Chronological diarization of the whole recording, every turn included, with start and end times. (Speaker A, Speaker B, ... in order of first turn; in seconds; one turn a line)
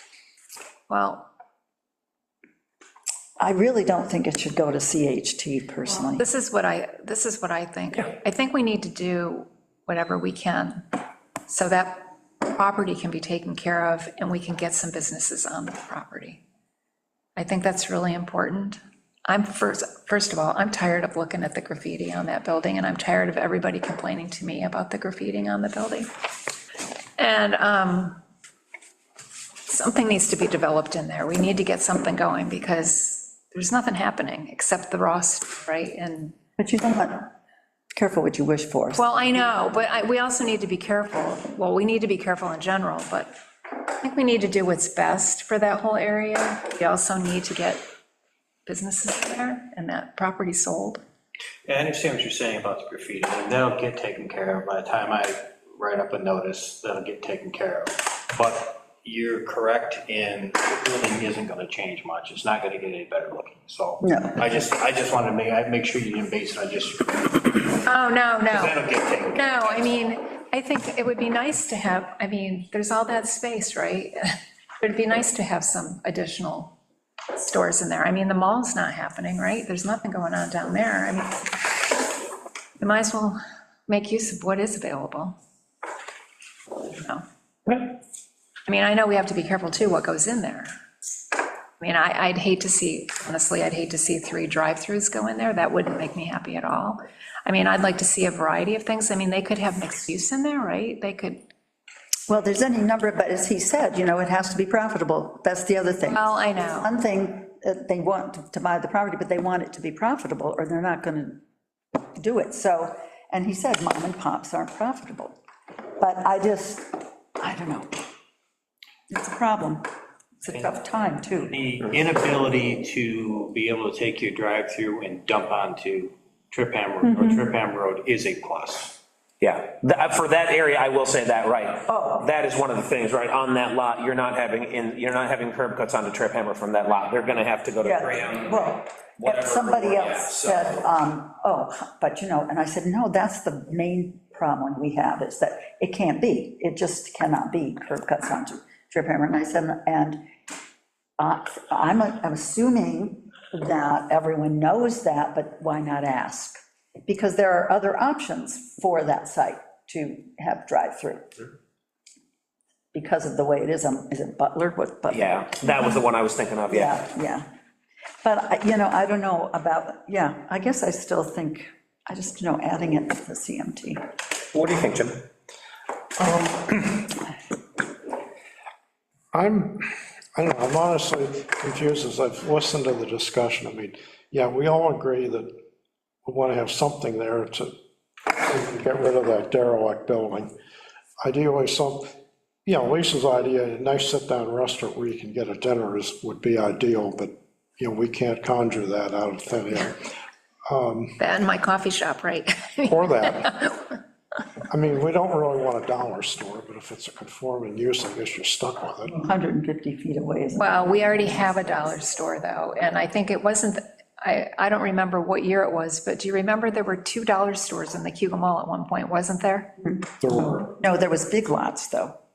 Speaker A: 0.9-1.3
Speaker B: 3.4-6.2
Speaker A: 6.2-10.9
Speaker A: 11.5-16.4
Speaker A: 17.4-26.1
Speaker A: 27.2-28.2
Speaker A: 29.7-36.4
Speaker B: 36.6-37.3
Speaker B: 37.9-39.0
Speaker A: 38.9-43.3
Speaker A: 44.0-47.8
Speaker A: 48.6-51.0
Speaker C: 51.6-67.8
Speaker B: 64.0-64.4
Speaker A: 67.8-68.8
Speaker C: 68.5-70.0
Speaker A: 69.3-74.2
Speaker A: 74.8-76.7
Speaker A: 77.3-82.1
Speaker A: 82.8-85.3
Speaker A: 87.0-87.2
Speaker D: 87.7-87.9
Speaker A: 88.7-90.7
Speaker A: 91.8-101.4
Speaker B: 102.3-111.4
Speaker A: 106.0-106.9
Speaker B: 112.2-115.4
Speaker B: 116.0-118.0
Speaker B: 119.1-119.8
Speaker B: 120.4-121.6
Speaker C: 121.5-129.0
Speaker B: 127.0-127.5
Speaker D: 129.4-140.9
Speaker B: 131.9-132.3
Speaker B: 137.8-150.2
Speaker B: 151.2-161.3
Speaker B: 162.9-165.8
Speaker D: 165.1-167.0
Speaker B: 166.7-167.4
Speaker B: 168.2-174.0
Speaker D: 174.5-175.2
Speaker E: 176.2-176.6
Speaker E: 179.3-185.5
Speaker E: 186.2-187.7
Speaker E: 188.3-190.5
Speaker E: 191.2-192.1
Speaker E: 192.7-200.1
Speaker E: 200.7-201.2
Speaker A: 201.2-204.0
Speaker E: 202.8-203.5
Speaker E: 204.7-209.2
Speaker B: 209.2-211.5
Speaker A: 210.5-219.7
Speaker B: 219.8-222.2
Speaker E: 220.2-220.7